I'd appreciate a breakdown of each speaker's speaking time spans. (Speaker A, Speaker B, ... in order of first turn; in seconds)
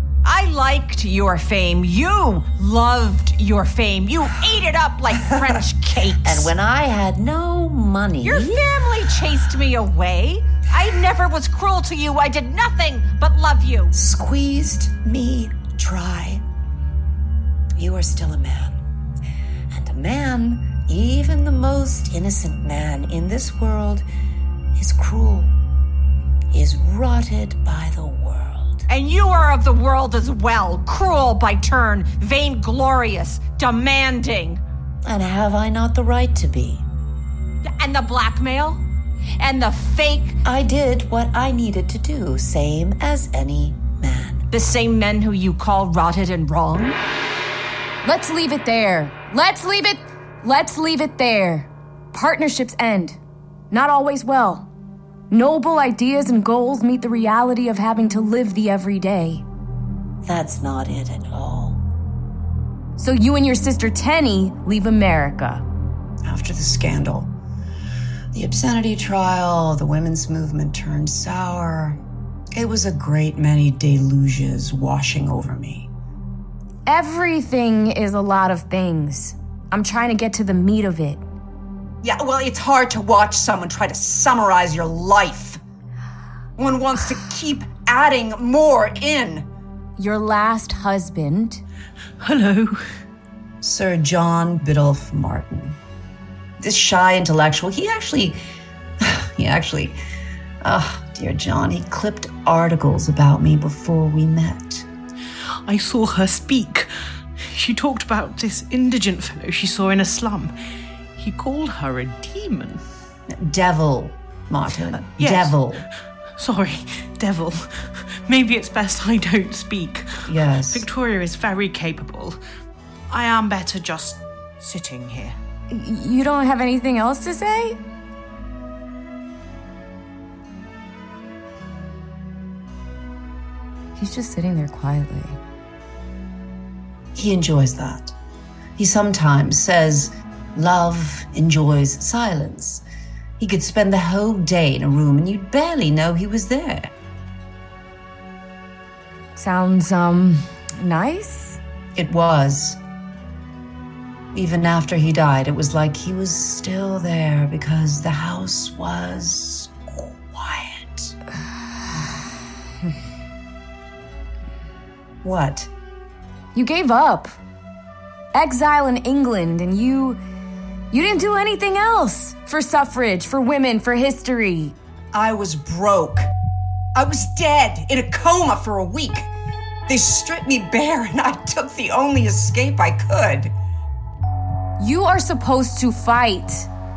Speaker A: 0.2-6.5, 8.2-13.9, 28.9-34.6, 37.6-38.8, 39.4-40.4, 44.5-47.0
Speaker B: 6.2-8.6, 14.5-16.4, 17.8-18.8, 19.7-24.1, 24.8-25.5, 26.5-28.8, 35.0-36.9, 40.5-44.5, 60.3-61.8, 101.8-104.8, 137.2-138.1, 138.8-142.8, 143.7-144.7, 145.3-146.2
Speaker C: 14.4-14.7, 66.2-67.3, 68.3-72.0, 72.5-75.9, 82.0-85.6, 86.6-89.5, 93.6-95.8, 96.6-98.4, 99.0-100.0, 100.7-102.1, 113.4-115.8, 120.3-120.9, 138.8-139.8, 143.4-146.9, 152.0-152.8, 154.3-161.1, 165.2-165.7, 175.1-176.3, 176.9-179.3, 179.9-183.5
Speaker D: 48.0-53.2, 53.7-54.7, 55.3-59.4, 63.0-65.7, 76.9-81.2, 90.0-91.6, 125.7-127.8, 134.0-135.4, 149.4-151.6, 166.6-167.4, 168.3-170.2, 170.9-174.8, 184.8-186.7
Speaker E: 92.2-92.8, 105.7-106.9, 107.5-110.5, 111.2-112.8, 115.0-115.7, 116.4-117.6, 118.3-122.3, 123.1-125.3